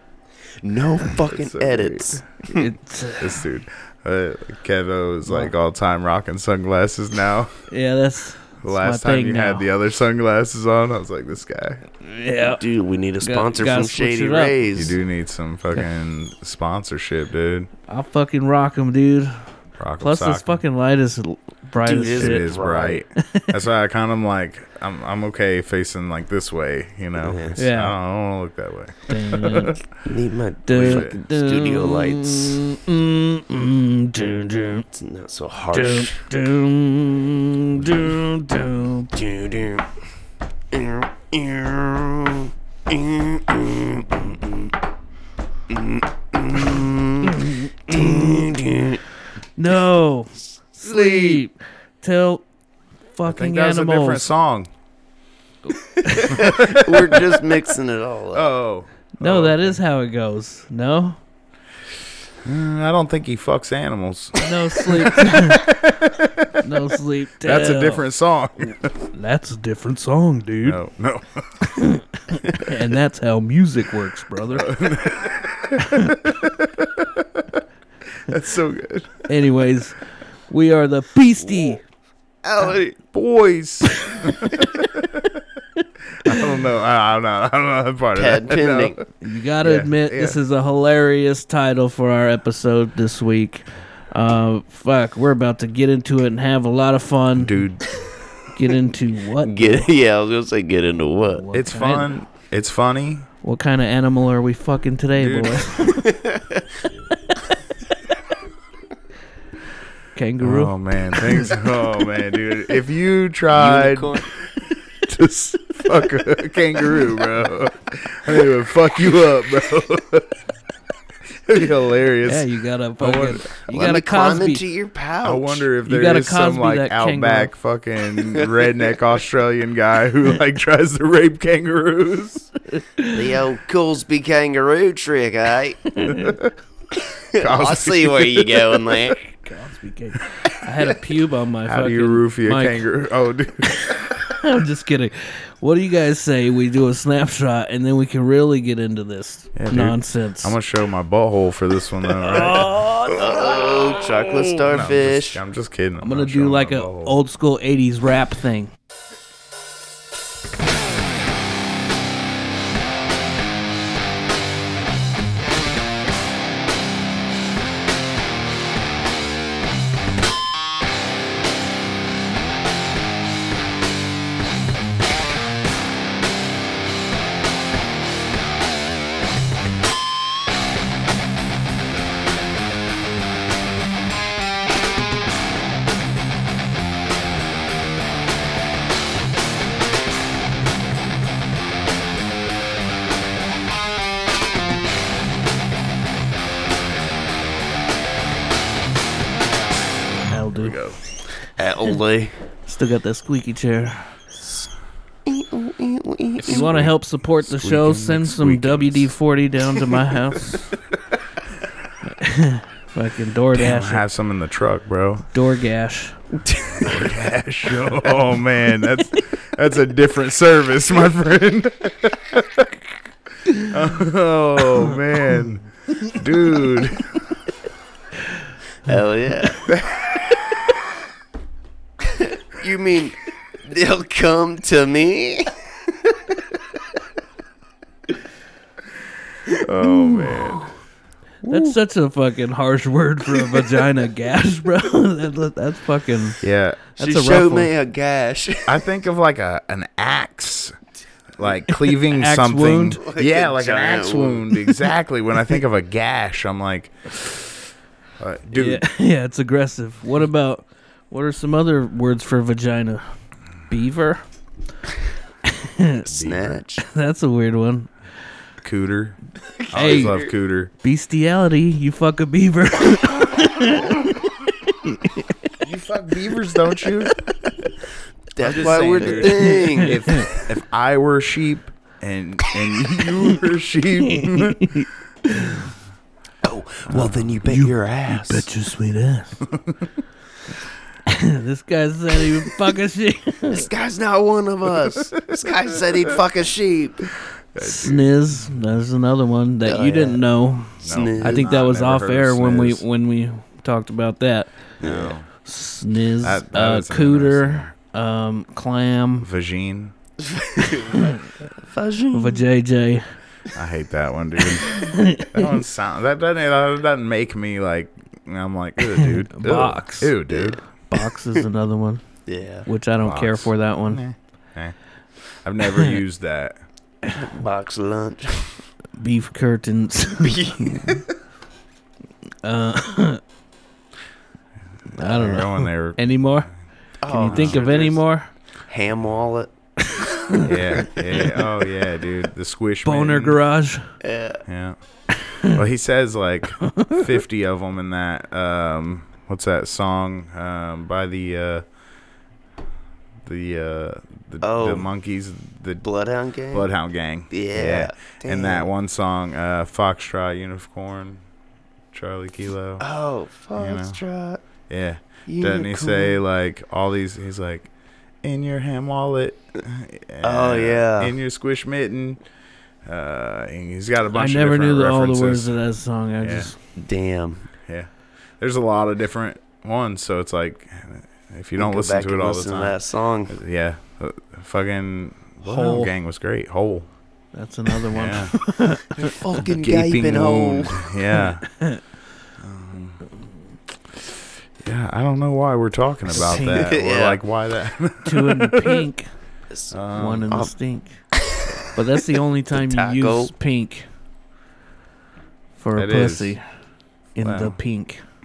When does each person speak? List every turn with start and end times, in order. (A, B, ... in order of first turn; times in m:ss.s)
0:00.6-0:02.7 A
0:01.3-0:02.2 B
0:02.5-0:03.4 C
0:03.2-0:07.5 B
0:05.3-0:05.5 C
0:07.7-0:09.7 C
0:08.6-0:11.8 B
0:12.0-0:12.6 C
0:12.4-0:15.0 A
0:13.2-0:14.5 C
0:14.8-0:17.7 B
0:17.9-0:19.4 C
0:19.8-0:20.6 B
0:20.0-0:22.5 C
0:21.9-0:23.0 A
0:22.0-0:29.9 B
0:23.2-0:23.5 C
0:27.2-0:27.6 A
0:27.6-0:28.0 C
0:29.1-0:29.8 C
0:30.1-0:32.6 A
0:30.7-0:34.9 C
0:30.8-0:31.2 B
0:34.9-0:36.2 A
0:35.7-0:39.2 C
0:39.1-0:39.9 A
0:40.7-0:44.7 A
0:45.7-0:49.0 A
0:47.2-0:48.6 C
0:49.6-0:52.4 C
0:50.8-0:51.4 B
0:53.1-0:54.3 C
0:53.3-0:54.7 B
0:55.7-0:57.2 C
0:55.8-0:58.5 A
0:56.3-0:57.3 B
0:58.3-0:59.8 B
0:59.2-1:01.2 C
1:02.4-1:06.7 B
1:04.4-1:05.7 C
1:06.6-1:08.1 C
1:07.4-1:09.0 B
1:09.1-1:10.8 C
1:10.6-1:11.7 B
1:11.6-1:14.9 C
1:14.5-1:17.6 B
1:15.8-1:16.2 C
1:18.2-1:19.2 B
1:19.3-1:21.8 C
1:21.4-1:21.8 A
1:22.4-1:23.0 A
1:23.0-1:25.4 B
1:23.9-1:24.5 C
1:26.0-1:29.0 B
1:28.2-1:29.0 A
1:29.2-1:37.6 C
1:29.6-1:30.4 B
1:37.4-1:38.1 B
1:38.5-1:39.9 C
1:39.4-1:41.4 A
1:41.3-1:42.1 C
1:41.5-1:43.3 B
1:43.4-1:46.2 C
1:45.2-1:45.8 B
1:46.0-1:46.7 A
1:50.1-1:51.5 C
1:50.4-1:54.3 B
1:53.5-1:54.3 A
1:55.0-2:00.3 B
2:01.4-2:02.4 B
2:02.2-2:04.6 C
2:03.0-2:03.5 B
2:03.7-2:05.7 A
2:05.2-2:12.5 B
2:05.8-2:07.5 C
2:08.4-2:08.8 A
2:12.7-2:13.3 C
2:13.1-2:15.9 A
2:15.9-2:16.4 C
2:16.1-2:16.5 B
2:17.3-2:19.3 A
2:17.4-2:19.1 B
2:19.4-2:22.9 C
2:21.7-2:24.0 B
2:23.7-2:30.6 C
2:29.6-2:32.7 B
2:32.2-2:34.6 C
2:32.4-2:35.4 A
2:34.7-2:37.2 B
2:36.0-2:38.7 C
3:20.3-3:20.8 C
3:20.6-3:21.0 B
3:21.6-3:22.3 A
3:22.7-3:24.0 C
3:24.4-3:24.7 A
3:25.3-3:26.8 A
3:26.4-3:30.8 C
3:26.4-3:29.1 B
3:32.0-3:34.0 C
3:33.5-3:35.3 B
3:35.3-3:36.2 C
3:36.4-3:37.2 A
3:36.8-3:42.8 B
3:43.5-3:47.2 B
3:48.8-3:49.7 A
3:49.6-3:50.4 B
3:52.0-3:56.6 A
3:59.6-4:00.7 B
4:00.0-4:00.4 C
4:01.4-4:01.8 B
4:01.5-4:06.4 C
4:06.4-4:06.8 B
4:07.0-4:07.7 C
4:07.0-4:08.8 A
4:08.7-4:10.8 B
4:11.4-4:17.2 B
4:11.7-4:13.0 C
4:13.0-4:14.7 A
4:18.2-4:18.8 B
4:18.5-4:23.1 C
4:23.7-4:24.2 C
4:25.4-4:26.0 C
4:26.0-4:26.9 A
4:26.1-4:26.6 B
4:26.8-4:27.9 C
4:28.6-4:29.2 B
4:29.6-4:30.3 A
4:29.7-4:30.7 B
4:29.7-4:30.2 C
4:30.8-4:35.5 C
4:35.6-4:37.2 B
4:38.4-4:40.0 A
4:38.4-4:44.7 B
4:38.6-4:40.3 C
4:44.0-4:45.7 C
4:46.4-4:48.5 A
4:46.9-4:47.4 B
4:47.5-4:49.5 C
4:49.5-4:49.9 B
4:51.1-4:53.7 C
4:53.4-4:57.1 A
4:54.8-4:56.2 B
4:57.2-4:58.1 B
4:57.6-5:04.5 C
4:59.6-5:00.2 A
5:00.8-5:01.5 A
5:00.8-5:02.8 B
5:04.8-5:05.3 B
5:04.8-5:05.2 A
5:05.4-5:09.3 C
5:06.2-5:07.7 B
5:09.2-5:09.9 B
5:10.2-5:12.4 A
5:10.9-5:11.3 C
5:12.1-5:13.0 C
5:13.5-5:20.6 B
5:14.5-5:15.5 C
5:18.9-5:20.2 C
5:20.3-5:20.6 A
5:20.9-5:22.0 C
5:22.3-5:22.7 A
5:22.7-5:24.0 C
5:23.0-5:24.8 B
5:25.4-5:26.6 B
5:27.1-5:28.6 A
5:29.0-5:31.0 C
5:30.2-5:31.1 A
5:32.4-5:33.2 C
5:34.9-5:36.5 C
5:35.0-5:35.5 A
5:35.1-5:36.0 B
5:37.0-5:38.0 A
5:37.1-5:38.3 C
5:37.3-5:37.6 B
5:38.7-5:41.3 A
5:39.9-5:40.4 C
5:40.4-5:43.4 B
5:41.1-5:41.4 C
5:42.8-5:43.9 C
5:44.0-5:44.4 A
5:44.5-5:44.8 B
5:45.2-5:45.6 C
5:45.4-5:51.6 B
5:46.6-5:47.1 C
5:53.2-5:55.8 B
5:54.4-5:54.9 A
5:55.8-5:56.7 A
5:56.5-6:01.2 B
5:57.3-5:58.7 A
6:01.9-6:02.8 B
6:02.8-6:04.4 A
6:03.6-6:04.0 B
6:04.7-6:07.7 B
6:05.3-6:06.2 A
6:08.2-6:12.2 B
6:10.2-6:11.2 A
6:12.9-6:15.5 B
6:14.1-6:16.6 C
6:16.2-6:16.5 B
6:16.8-6:17.5 A
6:17.6-6:17.9 B
6:18.4-6:22.8 B
6:21.6-6:23.4 A
6:23.3-6:26.9 B
6:25.4-6:25.9 C
6:27.3-6:29.2 C
6:27.9-6:28.4 B
6:28.9-6:31.0 A
6:29.5-6:31.5 B
6:31.5-6:31.8 C
6:32.4-6:33.1 B
6:33.9-6:38.8 B
6:36.1-6:37.2 A
6:38.0-6:39.1 C
6:39.5-6:40.5 A
6:39.7-6:40.4 B
6:40.0-6:41.0 C
6:41.8-6:43.9 C
6:42.5-6:43.3 A
6:45.6-6:46.4 C
6:45.8-6:46.4 B
6:47.2-6:48.0 C
6:47.2-6:47.6 B